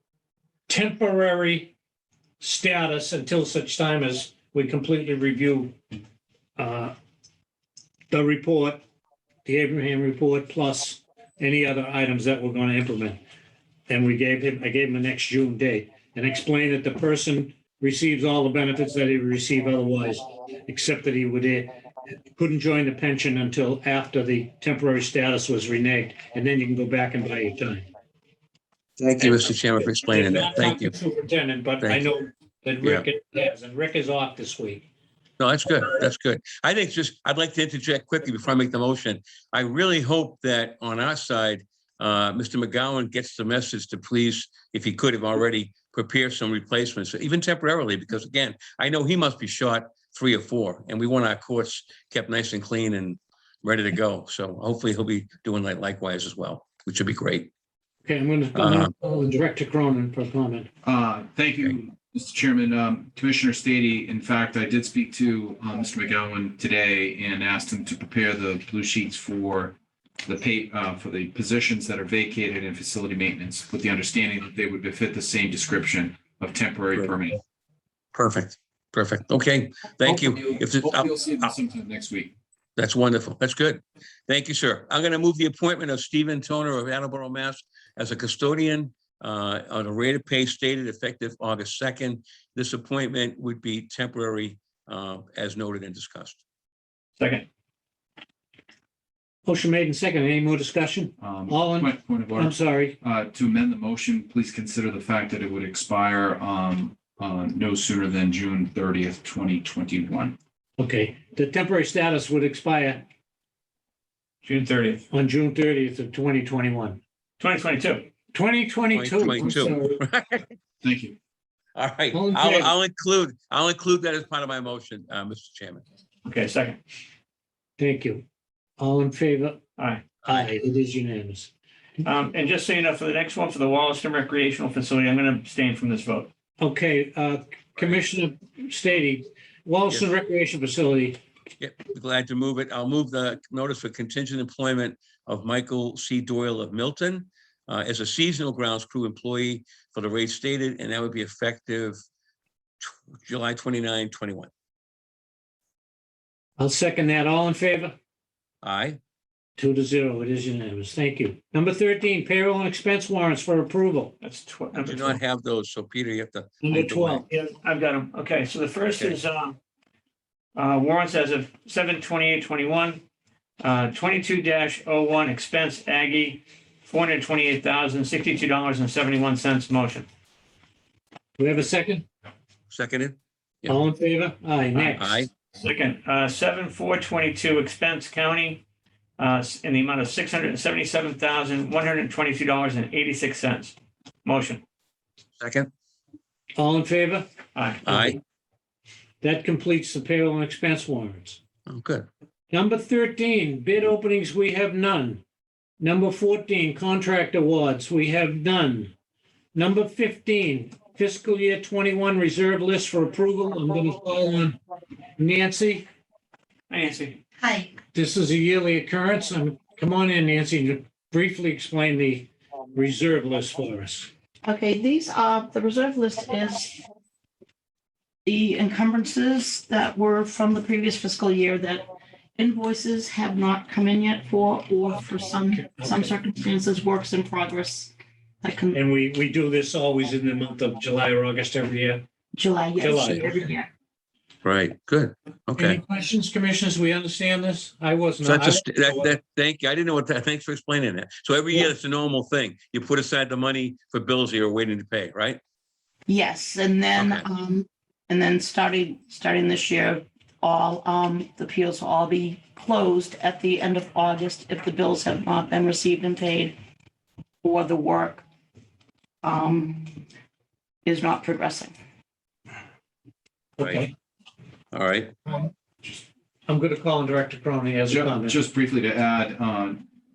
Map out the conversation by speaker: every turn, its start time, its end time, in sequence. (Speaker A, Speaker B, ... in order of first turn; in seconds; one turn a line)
Speaker A: 0.7-1.7
Speaker A: 2.4-5.8
Speaker A: 6.6-6.9
Speaker A: 8.1-8.8
Speaker A: 9.4-13.2
Speaker A: 13.9-21.7
Speaker A: 22.3-27.9
Speaker B: 29.2-30.9
Speaker A: 29.2-34.9
Speaker B: 31.8-32.1
Speaker B: 32.8-33.0
Speaker B: 35.4-57.5
Speaker A: 58.0-60.7
Speaker B: 58.5-58.9
Speaker C: 60.8-77.4
Speaker B: 78.1-81.5
Speaker C: 80.0-82.3
Speaker B: 82.8-96.4
Speaker D: 97.2-97.5
Speaker A: 99.5-103.0
Speaker C: 101.2-110.4
Speaker A: 110.8-113.0
Speaker D: 114.4-115.0
Speaker A: 115.1-117.0
Speaker D: 117.4-118.1
Speaker A: 118.3-120.0
Speaker B: 118.9-120.5
Speaker C: 120.8-121.2
Speaker B: 121.7-125.8
Speaker A: 122.1-122.7
Speaker D: 126.2-126.8
Speaker A: 127.8-128.2
Speaker A: 128.8-129.6
Speaker D: 129.8-130.1
Speaker A: 130.2-131.5
Speaker D: 132.0-136.3
Speaker A: 136.6-141.2
Speaker B: 141.6-152.0
Speaker B: 152.8-154.5
Speaker A: 156.6-157.9
Speaker B: 158.6-159.0
Speaker A: 159.6-164.1
Speaker D: 164.2-165.2
Speaker B: 164.8-167.2
Speaker A: 166.6-167.3
Speaker D: 167.3-169.6
Speaker D: 170.5-173.0
Speaker D: 173.6-180.1
Speaker A: 181.4-182.1
Speaker B: 182.7-183.8
Speaker A: 183.7-185.3
Speaker B: 184.7-185.3
Speaker D: 185.5-188.6
Speaker D: 189.2-194.6
Speaker B: 195.4-195.7
Speaker A: 196.6-197.3
Speaker D: 197.5-198.1
Speaker B: 197.8-198.2
Speaker A: 199.2-201.4
Speaker B: 201.7-202.1
Speaker A: 202.5-205.2
Speaker A: 205.8-208.9
Speaker A: 209.5-214.6
Speaker A: 215.2-215.9
Speaker D: 216.7-217.2
Speaker A: 217.9-224.1
Speaker E: 224.4-226.8
Speaker E: 228.2-238.8
Speaker A: 235.8-236.0
Speaker A: 238.7-242.0
Speaker E: 242.3-243.7
Speaker A: 242.8-243.5
Speaker B: 244.4-245.8
Speaker A: 245.5-249.1
Speaker B: 248.2-255.4
Speaker E: 256.1-266.5
Speaker B: 256.9-257.2
Speaker E: 267.4-268.2
Speaker E: 269.2-270.0
Speaker E: 270.8-271.7
Speaker B: 273.6-273.9
Speaker A: 273.6-273.9
Speaker B: 274.7-275.1
Speaker A: 275.3-278.4
Speaker C: 277.9-279.9